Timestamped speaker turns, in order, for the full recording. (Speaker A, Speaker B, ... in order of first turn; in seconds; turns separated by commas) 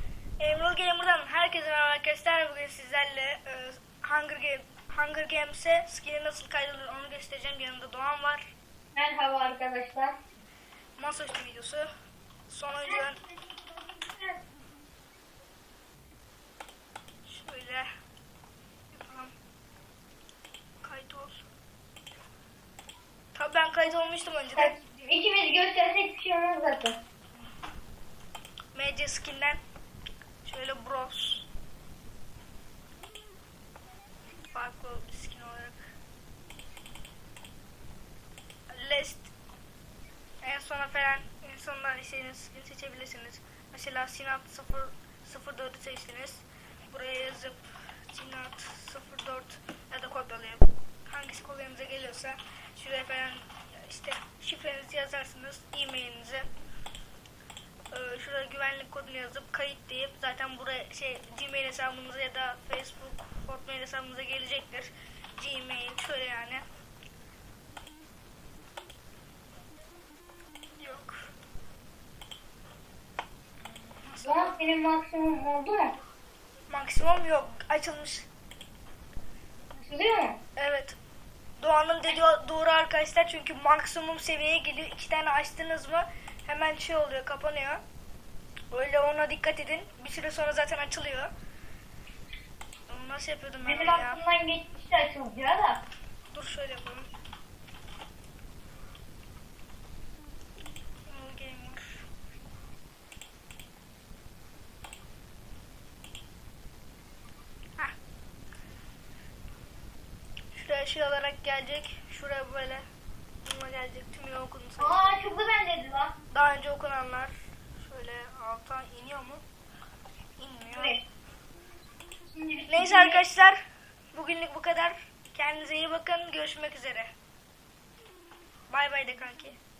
Speaker A: 0.4-8.4, Speaker B: 8.9-10.2, Speaker A: 11.0-11.9, Speaker A: 12.5-13.2, Speaker B: 12.8-14.4, Speaker A: 17.2-17.9, Speaker A: 18.9-19.3, Speaker A: 20.8-21.4, Speaker A: 23.4-24.7, Speaker B: 24.6-27.0, Speaker A: 28.7-29.6, Speaker A: 30.4-31.4, Speaker A: 34.5-35.8, Speaker A: 38.7-39.3, Speaker A: 40.4-47.6, Speaker A: 48.1-56.5, Speaker A: 57.9-66.6, Speaker A: 70.8-71.2, Speaker A: 73.6-74.6, Speaker B: 74.2-75.9, Speaker A: 76.7-78.3, Speaker B: 79.8-80.4, Speaker A: 80.6-81.0, Speaker A: 81.6-87.8, Speaker A: 88.7-91.3, Speaker A: 92.9-94.2, Speaker B: 93.7-95.8, Speaker A: 96.3-97.1, Speaker A: 101.1-101.8, Speaker A: 110.5-112.8, Speaker A: 113.4-115.1, Speaker B: 114.8-116.1, Speaker A: 116.3-119.4, Speaker A: 120.4-121.0, Speaker B: 120.8-121.0, Speaker B: 122.3-123.2, Speaker A: 122.7-123.6, Speaker A: 124.1-127.1, Speaker A: 128.7-129.6